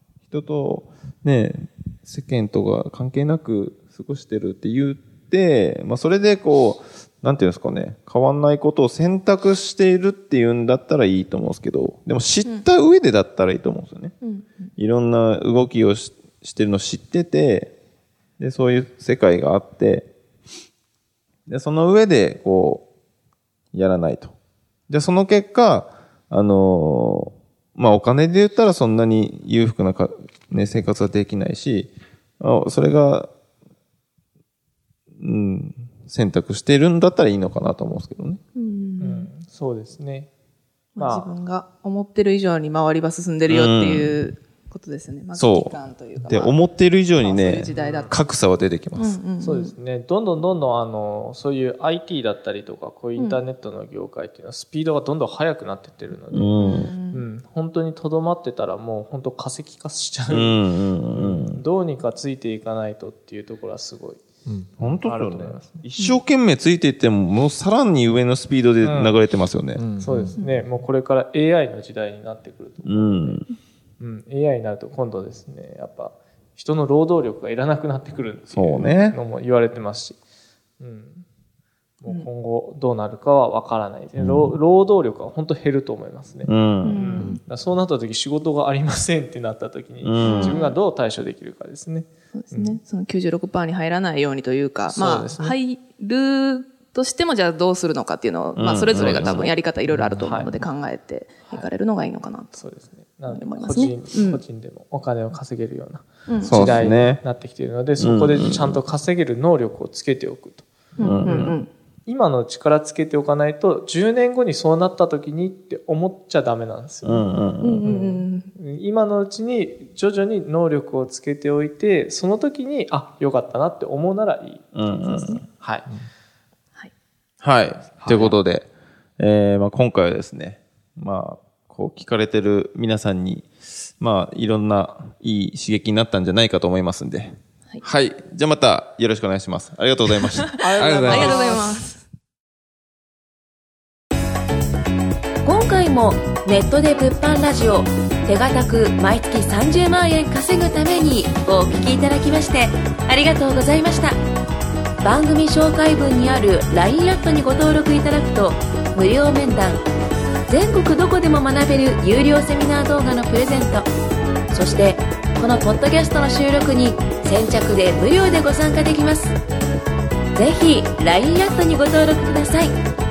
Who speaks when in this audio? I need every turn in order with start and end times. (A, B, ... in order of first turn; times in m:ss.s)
0:00.3-0:14.1 A
0:14.2-0:14.7 B
0:14.8-0:17.7 A
0:18.4-0:20.1 A
0:21.5-0:22.8 A
0:23.7-0:24.3 A
0:24.9-0:33.3 A
0:35.2-0:38.4 A
0:38.5-0:39.3 B
0:39.0-0:40.3 C
0:41.0-0:46.6 B
0:41.0-0:41.3 C
0:43.5-0:44.2 A
0:45.3-0:49.2 A
0:47.2-0:48.2 B
0:47.7-0:48.1 C
0:49.0-0:49.7 B
0:49.4-0:56.6 C
0:56.3-0:56.9 A
0:56.6-0:57.2 B
0:57.1-1:04.2 C
1:00.3-1:01.6 A
1:04.8-1:09.8 A
1:04.8-1:05.8 C
1:08.8-1:09.2 C
1:09.7-1:10.3 D
1:10.0-1:13.4 C
1:10.4-1:10.6 B
1:12.8-1:13.4 A
1:14.0-1:20.2 C
1:18.5-1:19.2 A
1:20.8-1:21.2 C
1:22.0-1:32.8 C
1:26.4-1:27.2 A
1:26.8-1:27.4 B
1:30.0-1:30.6 A
1:30.2-1:30.8 B
1:32.3-1:42.6 B
1:34.9-1:35.6 C
1:38.6-1:39.5 A
1:40.2-1:40.5 C
1:42.5-2:04.7 C
1:43.3-1:44.4 B
1:46.3-1:46.8 B
1:46.4-1:47.2 A
1:48.0-1:48.8 A
1:51.0-1:51.7 B
1:51.0-1:51.6 A
1:57.0-1:57.8 A
1:57.6-1:58.5 B
2:04.7-2:05.4 A
2:05.0-2:05.4 B
2:05.6-2:05.9 C
2:07.4-2:08.7 A
2:08.0-2:08.4 D
2:09.2-2:13.5 A
2:14.0-2:20.6 A
2:20.6-2:21.7 C
2:20.7-2:22.0 B
2:20.8-2:21.6 D
2:25.4-2:34.2 E
2:35.0-2:39.8 E
2:40.5-2:43.9 E
2:44.5-2:49.4 E
2:50.4-2:52.7 E